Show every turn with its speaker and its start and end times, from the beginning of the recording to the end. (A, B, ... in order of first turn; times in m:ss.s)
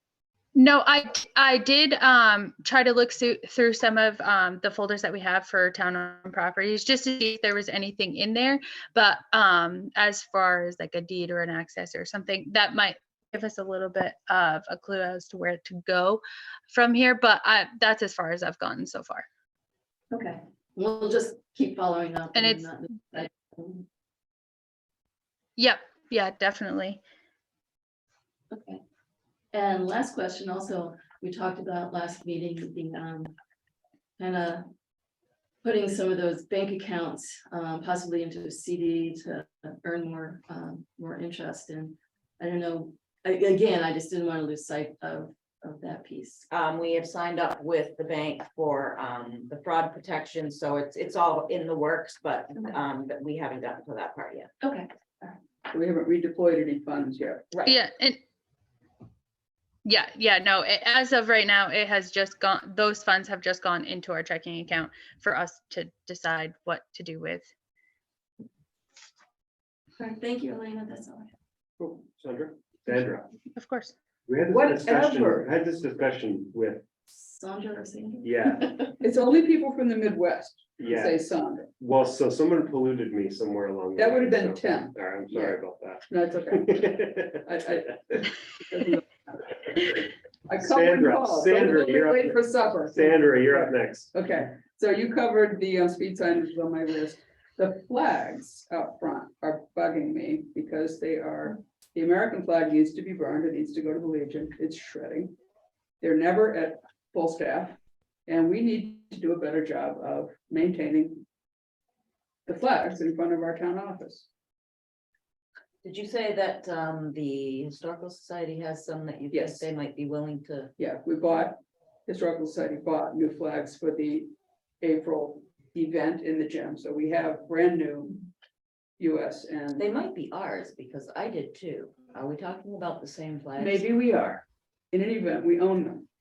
0:00.6-0:19.2 A
0:20.1-0:23.9 B
0:22.4-0:22.7 A
0:25.6-0:27.0 A
0:28.5-0:28.8 B
0:29.5-0:33.3 B
0:34.2-0:34.7 B
0:35.6-0:46.5 B
0:46.5-0:54.5 C
0:54.6-0:54.9 B
0:55.7-0:57.5 D
0:57.5-0:57.8 C
0:57.6-0:58.2 A
0:59.8-1:07.5 A
1:10.0-1:11.3 B
1:11.8-1:12.1 D
1:12.2-1:13.3 E
1:13.6-1:14.0 A
1:14.3-1:16.8 E
1:14.5-1:15.4 D
1:17.1-1:19.0 B
1:18.2-1:18.7 E
1:19.0-1:21.7 D
1:20.8-1:21.2 E
1:21.8-1:27.4 E
1:24.0-1:25.6 D
1:26.1-1:29.4 D
1:30.5-1:45.3 D
1:30.6-1:34.1 E
1:46.0-1:51.2 D
1:52.5-1:54.3 D
1:55.8-2:00.7 C
1:59.3-1:59.6 D
2:00.8-2:08.2 D
2:09.0-2:09.8 D
2:09.8-2:13.8 C
2:13.6-2:16.1 D